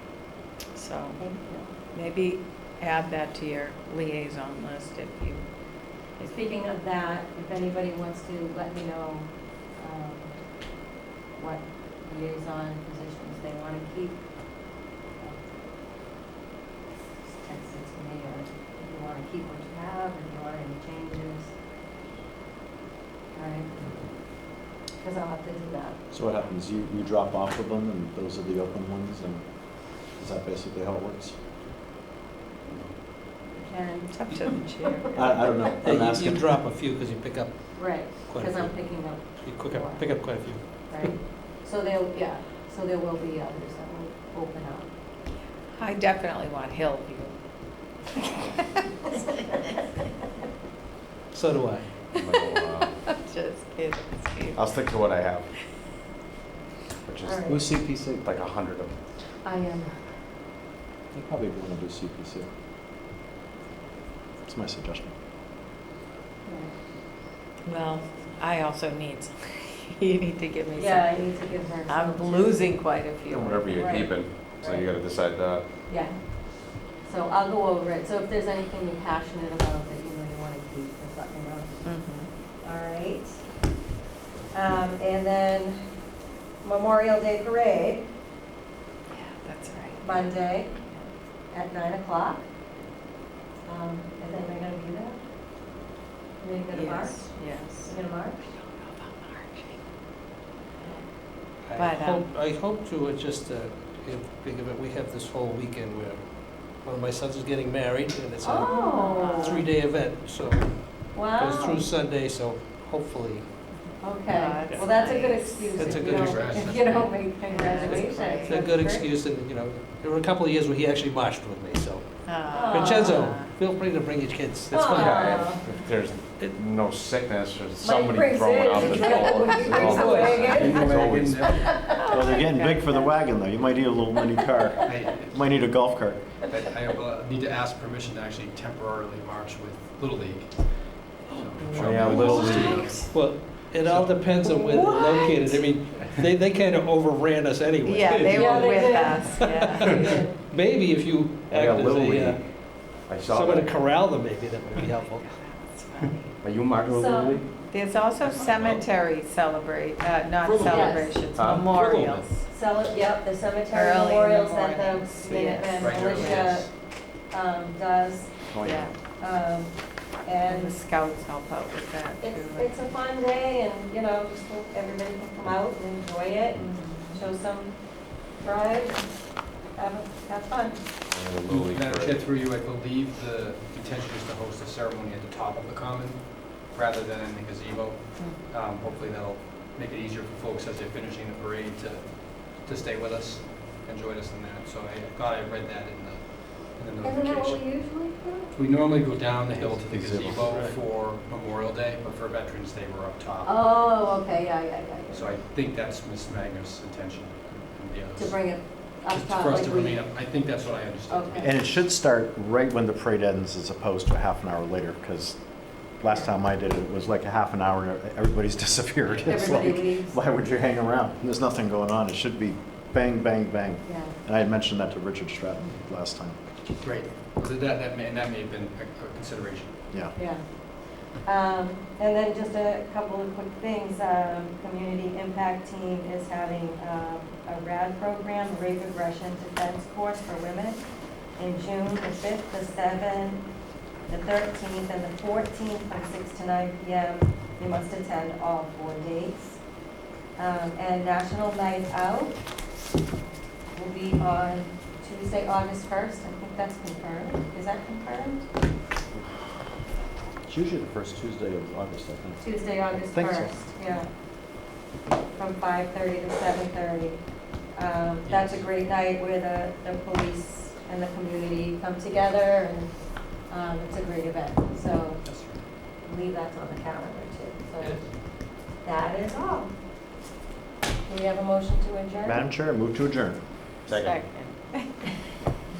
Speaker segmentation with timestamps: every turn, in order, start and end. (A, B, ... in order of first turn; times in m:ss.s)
0:00.7-0:01.3 A
0:01.2-0:01.7 B
0:01.9-0:05.4 A
0:06.3-0:10.3 B
0:11.3-0:14.2 B
0:15.2-0:15.5 B
0:17.4-0:21.5 B
0:23.3-0:23.7 B
0:25.0-0:26.0 B
0:26.1-0:31.4 C
0:33.5-0:34.1 B
0:34.1-0:35.5 A
0:35.1-0:36.5 C
0:35.8-0:41.0 D
0:37.7-0:40.2 B
0:40.8-0:44.9 B
0:45.7-0:47.3 A
0:51.3-0:51.9 D
0:52.1-0:53.0 E
0:53.1-0:54.6 A
0:54.5-0:55.5 E
0:57.1-0:57.5 E
0:57.2-0:57.7 B
0:57.5-0:58.2 C
0:58.2-0:58.9 E
0:59.4-0:59.9 B
1:01.1-1:02.5 C
1:04.4-1:05.1 C
1:06.4-1:06.7 B
1:07.6-1:11.4 A
1:10.8-1:12.8 B
1:11.9-1:14.1 A
1:13.3-1:15.7 E
1:13.7-1:14.8 B
1:15.9-1:21.8 B
1:21.8-1:22.3 A
1:22.6-1:23.4 B
1:24.5-1:25.8 B
1:26.6-1:28.1 B
1:29.1-1:31.1 A
1:30.0-1:30.7 B
1:31.5-1:32.4 B
1:33.6-1:35.2 B
1:36.4-1:38.4 B
1:36.7-1:38.0 A
1:38.5-1:39.8 A
1:41.6-1:53.5 D
1:41.8-1:42.3 A
1:48.4-1:49.6 B
1:48.5-1:49.6 A
1:51.1-1:51.9 B
1:53.7-1:56.0 A
1:54.0-1:59.1 B
1:55.7-1:56.6 D
1:56.0-1:57.3 F
1:57.5-1:58.6 A
1:57.8-2:05.5 D
2:02.2-2:03.5 A
2:02.5-2:03.2 B
2:04.7-2:05.6 B
2:04.9-2:11.6 E
2:07.8-2:12.1 B
2:08.8-2:10.7 D
2:10.6-2:11.8 F
2:12.0-2:13.1 A
2:12.1-2:16.2 C
2:14.8-2:15.6 F
2:16.5-2:23.1 F
2:21.6-2:23.1 A
2:21.7-2:22.9 E
2:21.7-2:22.0 D
2:22.1-2:22.7 B
2:23.1-2:35.2 D
2:23.7-2:24.3 F
2:24.4-2:25.2 B
2:24.8-2:25.3 A
2:27.8-2:30.2 A
2:28.2-2:30.3 B
2:31.5-2:33.7 E
2:35.0-2:36.3 A
2:36.4-2:37.5 E
2:36.9-2:37.4 B
2:37.7-2:42.4 A
2:38.4-2:38.8 E
2:40.4-2:40.8 D
2:40.6-2:42.3 E
2:40.6-2:41.2 B
2:41.7-2:42.2 D
2:42.4-2:46.7 B
2:43.7-2:46.5 A
2:45.8-2:46.7 F
2:47.3-2:48.3 B
2:48.5-2:48.9 E
2:48.6-2:48.9 A
2:49.2-2:50.8 B
2:50.4-2:52.9 A
2:52.2-2:59.2 B
2:56.6-2:57.2 A
2:59.7-3:00.8 B
3:01.1-3:02.3 E
3:01.5-3:17.6 F
3:17.0-3:18.5 B
3:18.5-3:23.5 F
3:19.8-3:20.5 C
3:20.4-3:20.8 D
3:23.4-3:25.4 B
3:25.1-3:28.5 F
3:28.1-3:30.0 B
3:29.1-3:31.5 F
3:31.1-3:31.5 B
3:31.4-3:35.4 C
3:35.9-3:46.4 C
3:39.2-3:40.2 B
3:43.8-3:44.2 B
3:46.8-3:49.8 F
3:49.9-3:50.1 C
3:50.1-4:00.8 B
4:01.4-4:03.4 B
4:04.1-4:09.6 B
4:10.4-4:12.3 B
4:13.7-4:18.4 B
4:20.4-4:23.5 C
4:22.4-4:24.1 B
4:25.3-4:27.2 B
4:27.7-4:35.2 B
4:28.2-4:28.7 F
4:35.2-4:35.6 F
4:36.0-4:39.7 B
4:41.1-4:42.4 B
4:42.2-4:43.4 C
4:43.9-4:44.2 E
4:43.9-4:45.1 A